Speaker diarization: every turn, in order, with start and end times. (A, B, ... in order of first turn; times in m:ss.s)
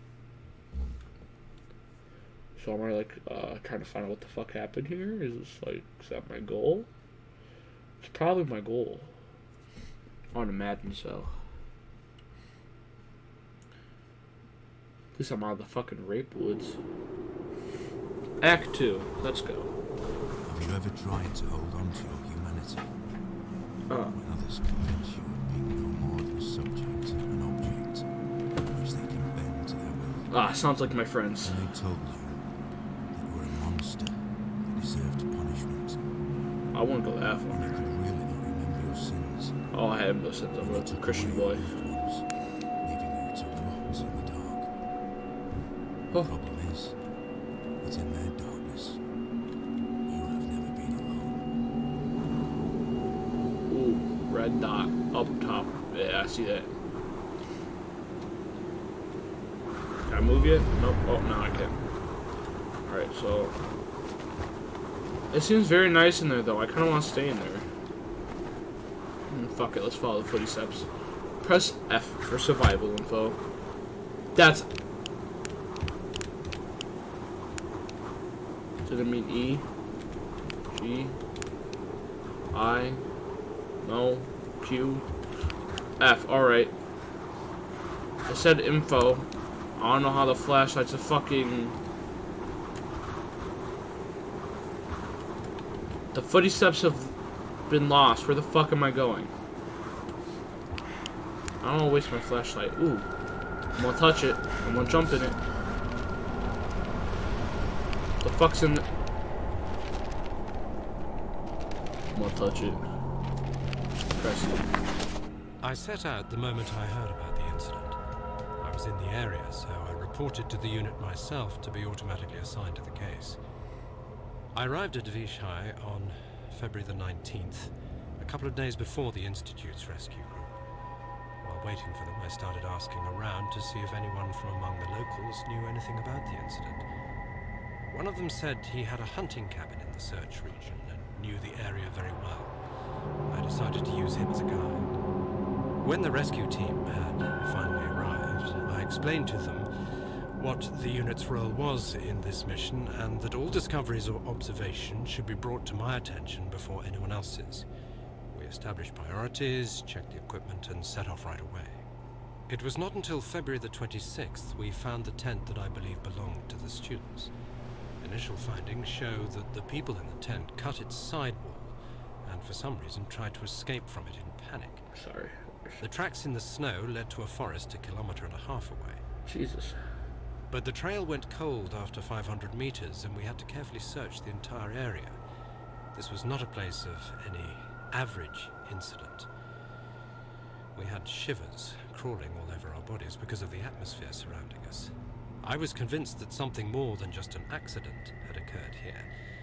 0:02.6-0:06.9 A
0:08.0-0:09.1 A
0:10.3-0:11.4 A
0:15.2-0:16.8 A
0:18.4-0:19.7 A
0:20.4-0:23.0 B
0:23.9-0:24.2 A
0:24.1-0:30.3 B
0:30.3-0:31.6 A
0:31.4-0:32.4 B
0:33.1-0:36.0 B
0:36.7-0:37.6 A
0:37.5-0:39.6 B
0:39.7-0:41.7 A
0:40.6-0:44.7 B
0:46.2-0:47.0 B
0:47.8-0:49.0 B
0:50.1-0:51.4 B
0:53.7-0:56.7 A
1:00.0-1:01.8 A
1:02.9-1:03.5 A
1:05.3-1:07.6 A
1:09.3-1:10.9 A
1:11.4-1:13.4 A
1:14.4-1:14.7 A
1:18.8-1:19.6 A
1:20.7-1:21.2 A
1:22.5-1:23.0 A
1:23.8-1:25.0 A
1:26.0-1:26.7 A
1:28.3-1:29.3 A
1:29.8-1:31.8 A
1:36.1-1:37.2 A
1:37.7-1:39.3 A
1:41.6-1:43.1 A
1:43.8-1:45.4 A
1:48.2-1:48.8 A
1:52.1-1:52.8 A
1:54.1-1:54.7 A
1:55.6-1:58.0 C
1:58.6-2:03.4 C
2:04.5-2:10.5 C
2:11.4-2:16.8 C
2:17.9-2:22.5 C
2:23.3-2:24.9 C
2:25.8-2:29.7 C
2:30.4-2:37.7 C
2:38.3-2:41.8 C
2:42.5-2:47.3 C
2:48.0-2:54.9 C
2:54.9-2:55.8 A
2:55.8-2:59.0 C
2:59.3-2:59.8 A
3:00.5-3:05.2 C
3:05.9-3:09.3 C
3:10.8-3:19.1 C